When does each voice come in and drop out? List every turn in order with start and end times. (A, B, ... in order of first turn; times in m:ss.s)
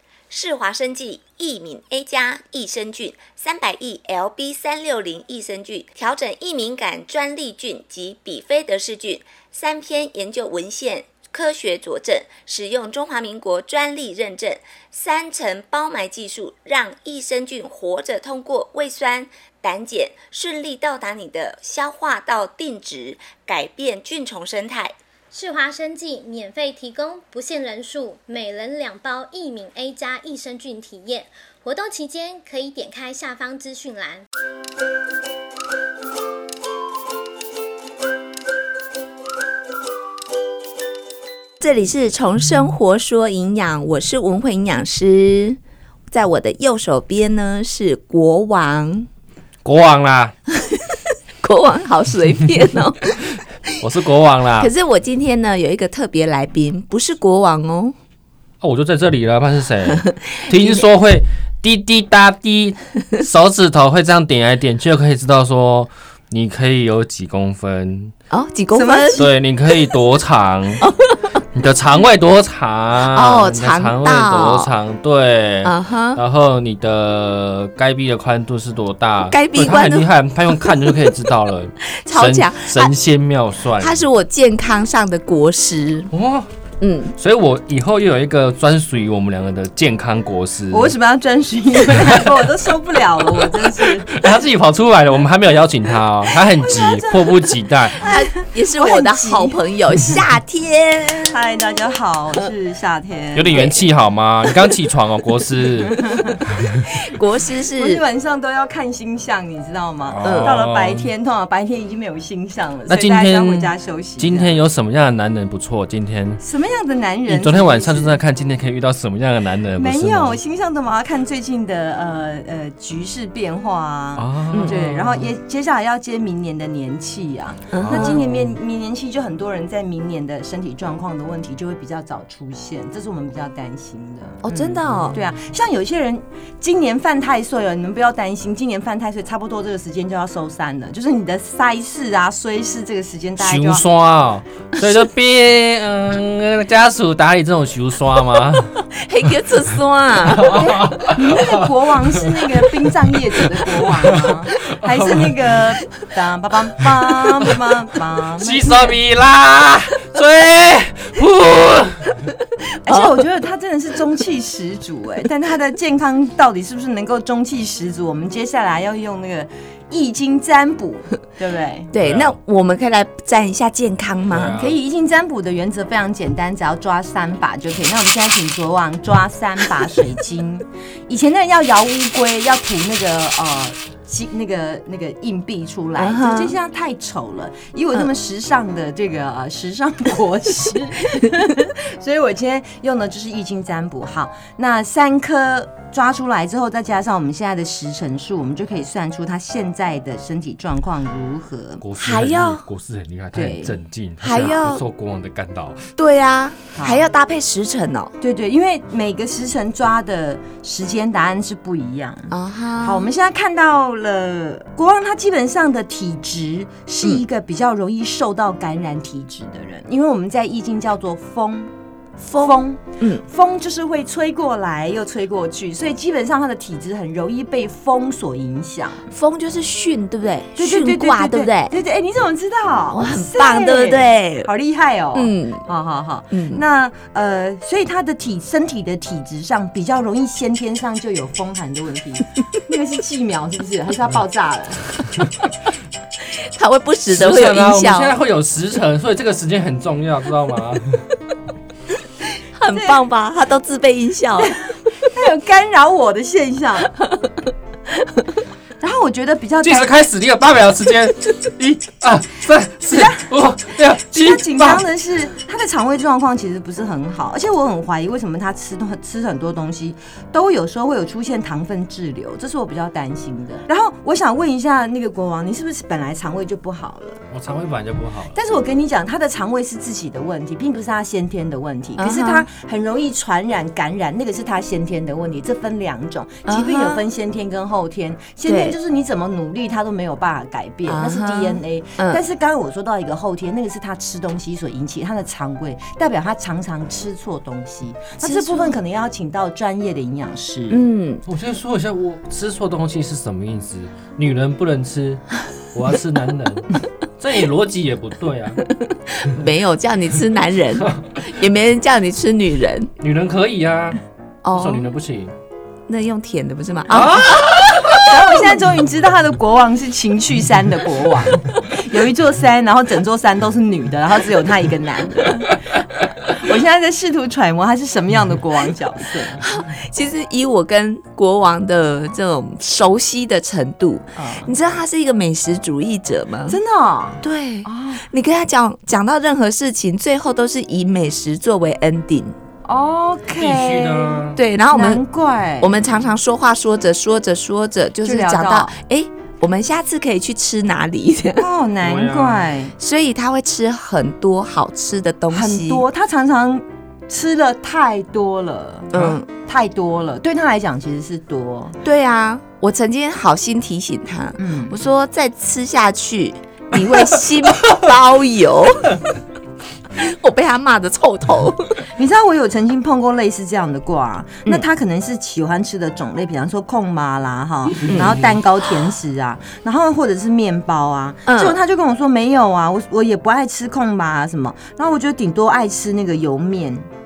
0:00.3-0:25.0 A
0:25.3-0:34.2 B
0:41.6-0:45.6 A
0:46.1-0:49.1 A
0:49.6-0:50.3 C
0:50.7-0:53.4 A
0:53.8-0:54.7 C
0:54.6-0:57.9 A
0:58.6-1:08.1 C
1:00.0-1:00.8 A
1:08.3-1:09.3 A
1:08.7-1:09.3 D
1:09.2-1:10.8 C
1:10.8-1:11.3 A
1:11.5-1:24.0 C
1:13.0-1:14.7 A
1:15.6-1:16.2 A
1:19.3-1:20.1 A
1:21.9-1:22.9 A
1:23.8-1:26.1 A
1:26.1-1:26.5 C
1:26.8-1:27.1 A
1:27.2-1:30.9 C
1:30.7-1:34.1 D
1:34.1-1:38.0 C
1:36.6-1:40.2 D
1:38.0-1:41.4 A
1:41.2-1:43.7 D
1:43.3-1:46.0 C
1:43.5-1:43.9 A
1:45.9-1:46.4 D
1:46.8-1:48.0 A
1:47.8-1:54.6 D
1:50.0-1:51.1 C
1:50.2-1:50.6 A
1:52.9-1:56.4 C
1:56.4-1:58.2 D
1:57.3-2:00.4 C
1:59.8-2:23.8 D
2:04.2-2:05.3 C
2:07.7-2:08.2 A
2:07.8-2:08.6 C
2:14.4-2:15.2 A
2:23.4-2:28.8 C
2:29.0-2:30.7 A
2:30.2-2:32.4 C
2:30.6-2:38.9 D
2:34.6-2:35.3 C
2:38.4-2:42.1 C
2:42.8-2:51.9 D
2:42.9-2:43.2 A
2:51.9-2:54.6 A
2:52.0-2:52.4 C
2:54.3-2:54.8 C
2:54.6-3:21.8 D
3:06.0-3:06.6 A
3:21.8-3:25.9 C
3:22.0-3:22.6 A
3:23.4-3:23.8 D
3:24.2-3:24.8 A
3:26.0-3:28.1 A
3:26.7-3:27.1 D
3:28.2-3:41.7 D
3:32.3-3:33.1 A
3:42.2-3:43.2 A
3:42.4-3:49.1 D
3:49.1-3:51.7 A
3:50.6-4:05.3 D
3:52.9-3:54.5 A
3:55.1-3:55.6 A
3:56.3-3:56.6 A
4:06.3-4:08.2 A
4:07.1-4:11.0 C
4:12.5-4:14.6 A
4:12.7-4:13.0 D
4:14.4-4:16.9 D
4:17.0-4:17.3 A
4:18.8-4:19.9 D
4:19.6-4:24.9 C
4:22.9-4:23.3 D
4:24.0-4:37.2 D
4:37.3-4:38.4 C
4:38.4-5:00.8 D
4:42.0-4:42.5 A
4:46.5-4:47.1 A
4:48.5-4:48.8 A
4:50.9-4:52.2 A
4:58.2-4:58.8 A
5:00.7-5:01.2 A
5:01.2-5:08.6 C
5:08.9-5:12.9 A
5:10.8-5:11.1 C
5:13.0-5:14.0 C
5:14.4-5:14.9 A
5:14.5-5:15.4 C
5:15.9-5:17.5 A
5:16.9-5:18.2 C
5:18.0-5:29.4 D
5:29.4-5:36.6 A
5:34.2-5:34.5 D
5:36.5-5:38.0 D
5:37.2-5:42.4 A
5:42.6-5:45.8 D
5:43.4-5:44.4 C
5:44.4-5:45.0 A
5:45.6-5:51.5 A
5:48.0-5:48.7 D
5:51.4-5:52.7 D
5:51.8-5:52.5 C
5:52.8-5:55.8 A
5:55.3-6:01.8 D
5:58.9-5:59.3 A
6:01.8-6:09.0 A
6:04.4-6:04.8 D
6:10.0-6:11.9 A
6:11.9-6:26.9 D
6:17.9-6:18.2 A
6:17.9-6:18.2 C
6:21.2-6:21.6 A